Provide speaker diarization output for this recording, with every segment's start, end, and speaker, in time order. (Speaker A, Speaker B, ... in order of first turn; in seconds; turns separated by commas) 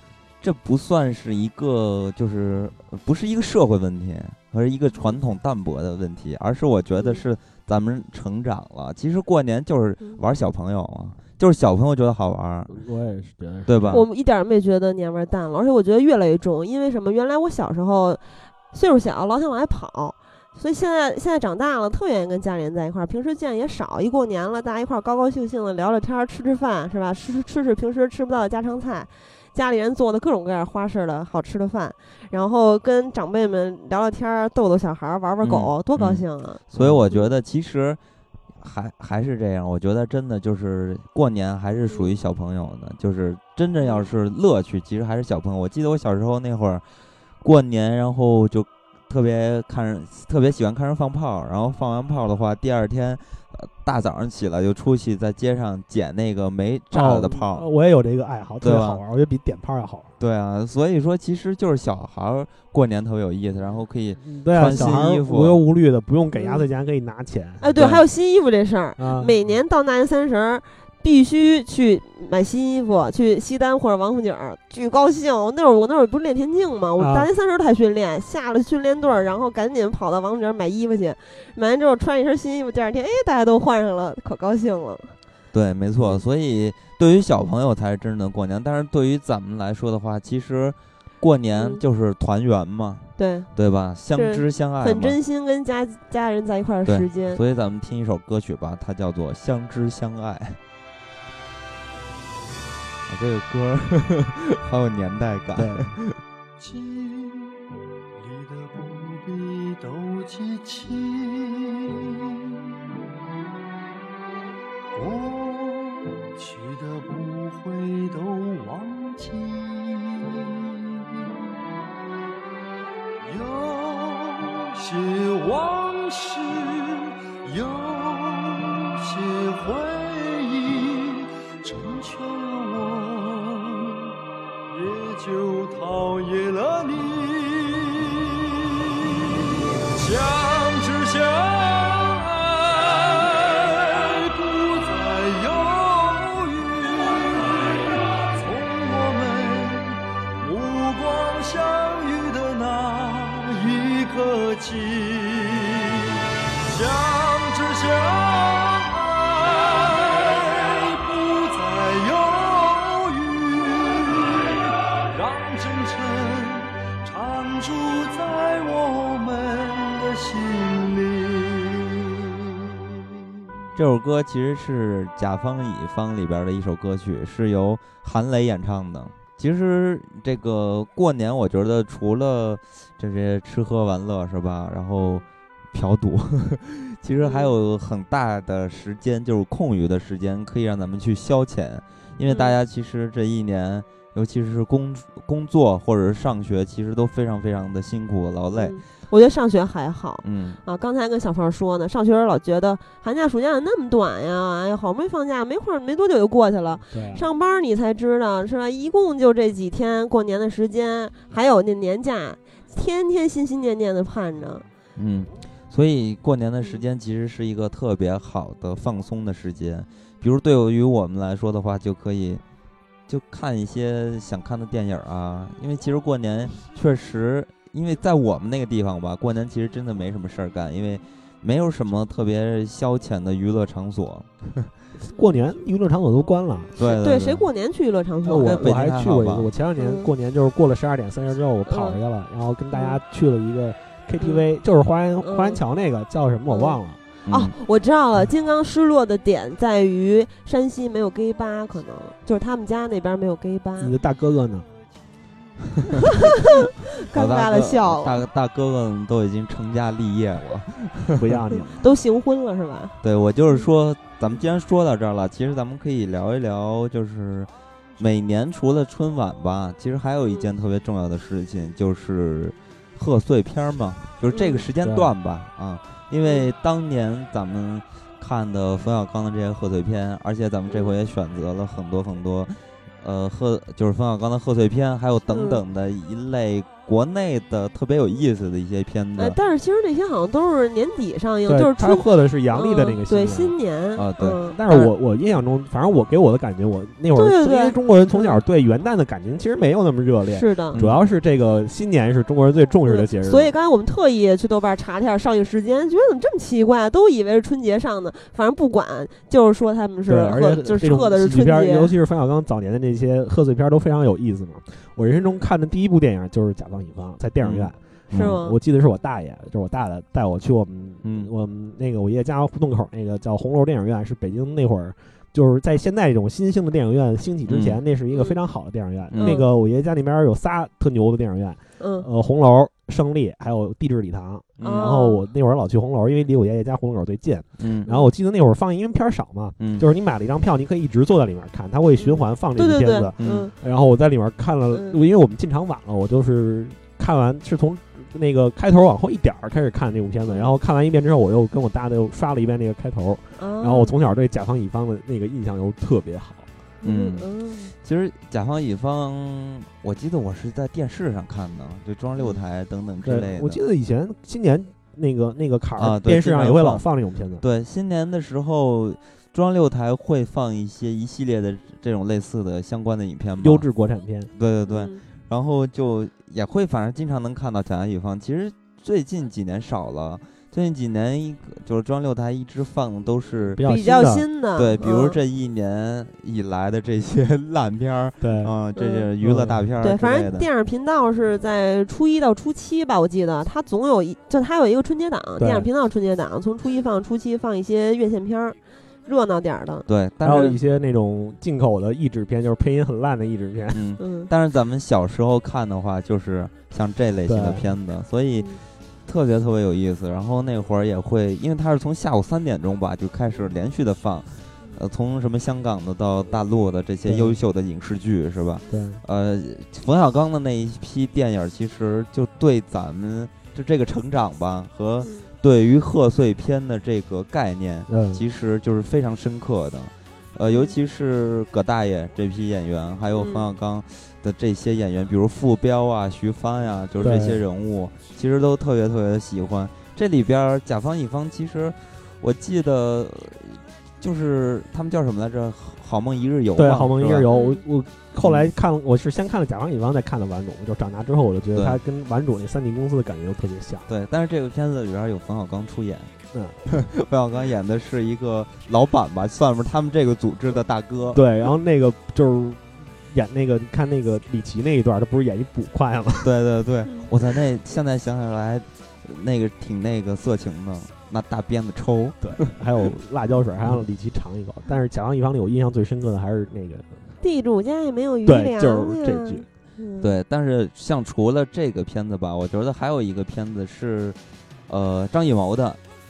Speaker A: 0.4-12.8, Speaker B: 7.0-7.2, Speaker C: 12.7-14.0, Speaker A: 13.7-14.1, Speaker B: 13.9-37.3, Speaker A: 35.4-38.0, Speaker A: 38.6-46.8, Speaker B: 43.8-44.1, Speaker A: 47.4-57.6, Speaker C: 56.9-60.1, Speaker A: 58.6-59.0, Speaker A: 60.2-65.6, Speaker C: 64.2-67.9, Speaker B: 66.3-66.6, Speaker B: 67.6-85.1, Speaker A: 67.8-68.0, Speaker C: 69.0-69.3, Speaker C: 77.0-77.3, Speaker A: 85.5-95.2, Speaker B: 91.5-91.8, Speaker B: 93.2-93.5, Speaker B: 94.1-97.4, Speaker A: 96.8-100.6, Speaker A: 103.1-106.2, Speaker C: 105.5-106.0, Speaker D: 106.6-107.6, Speaker D: 108.2-112.4, Speaker D: 114.9-121.6, Speaker D: 123.2-134.1, Speaker D: 134.7-172.2, Speaker A: 173.8-198.8, Speaker B: 185.0-185.2, Speaker B: 187.2-187.5, Speaker B: 192.2-192.6, Speaker B: 198.5-214.6, Speaker A: 200.2-200.6, Speaker C: 206.9-207.3, Speaker A: 214.9-222.4, Speaker A: 223.1-234.3, Speaker C: 235.0-236.8, Speaker A: 236.8-237.4, Speaker B: 236.8-238.7, Speaker C: 238.2-247.0, Speaker A: 238.3-239.5, Speaker B: 239.8-240.1, Speaker B: 241.7-242.0, Speaker B: 242.7-243.0, Speaker B: 245.2-245.6, Speaker B: 246.5-253.9, Speaker A: 247.3-247.5, Speaker C: 253.8-254.7, Speaker B: 256.2-258.2, Speaker A: 257.1-261.1, Speaker C: 261.2-261.8, Speaker B: 261.8-263.0, Speaker A: 263.0-289.4, Speaker B: 274.3-274.6, Speaker C: 274.8-275.1, Speaker B: 276.2-276.5, Speaker B: 285.3-285.6, Speaker B: 289.2-294.9, Speaker C: 291.5-293.5, Speaker A: 293.9-294.4, Speaker C: 294.5-303.5, Speaker B: 297.1-298.4, Speaker B: 300.3-300.8, Speaker A: 300.7-301.0, Speaker B: 302.8-311.9, Speaker C: 310.1-356.4, Speaker A: 317.4-318.4, Speaker B: 318.1-318.6, Speaker A: 321.0-321.3, Speaker A: 327.5-327.8, Speaker B: 328.1-328.4, Speaker A: 329.1-329.4, Speaker B: 329.2-329.5, Speaker B: 331.8-332.1, Speaker A: 334.6-334.9, Speaker B: 334.6-335.2, Speaker A: 337.6-337.9, Speaker B: 337.9-338.1, Speaker A: 339.6-339.9, Speaker B: 342.0-343.5, Speaker A: 343.2-343.5, Speaker B: 344.7-345.0, Speaker B: 353.4-353.9, Speaker B: 356.8-357.7, Speaker A: 356.8-357.3, Speaker A: 357.8-363.6, Speaker C: 363.0-367.4, Speaker A: 365.8-366.9, Speaker A: 367.4-373.6, Speaker C: 373.4-374.3, Speaker A: 374.3-383.7, Speaker B: 374.6-375.0, Speaker C: 383.5-384.2, Speaker B: 383.6-385.2, Speaker A: 384.6-390.5, Speaker C: 388.2-388.5, Speaker B: 388.8-389.1, Speaker C: 389.2-389.6, Speaker B: 389.8-399.9, Speaker C: 395.4-395.7, Speaker A: 399.9-400.6, Speaker C: 400.2-403.8, Speaker A: 403.7-408.5, Speaker B: 404.0-404.3, Speaker C: 407.3-407.7, Speaker B: 408.4-408.6, Speaker A: 409.1-447.3, Speaker C: 417.1-417.4, Speaker C: 418.7-419.0, Speaker C: 427.9-428.2, Speaker B: 430.5-430.7, Speaker B: 433.1-433.5, Speaker C: 437.0-437.4, Speaker C: 446.6-453.9, Speaker B: 447.3-447.6, Speaker A: 448.2-448.5, Speaker A: 451.5-451.8, Speaker A: 453.9-456.1, Speaker C: 456.3-456.6, Speaker A: 456.7-461.2, Speaker C: 461.1-466.3, Speaker A: 466.2-472.3, Speaker C: 472.2-477.0, Speaker B: 477.2-480.1, Speaker C: 478.2-479.4, Speaker A: 480.0-485.8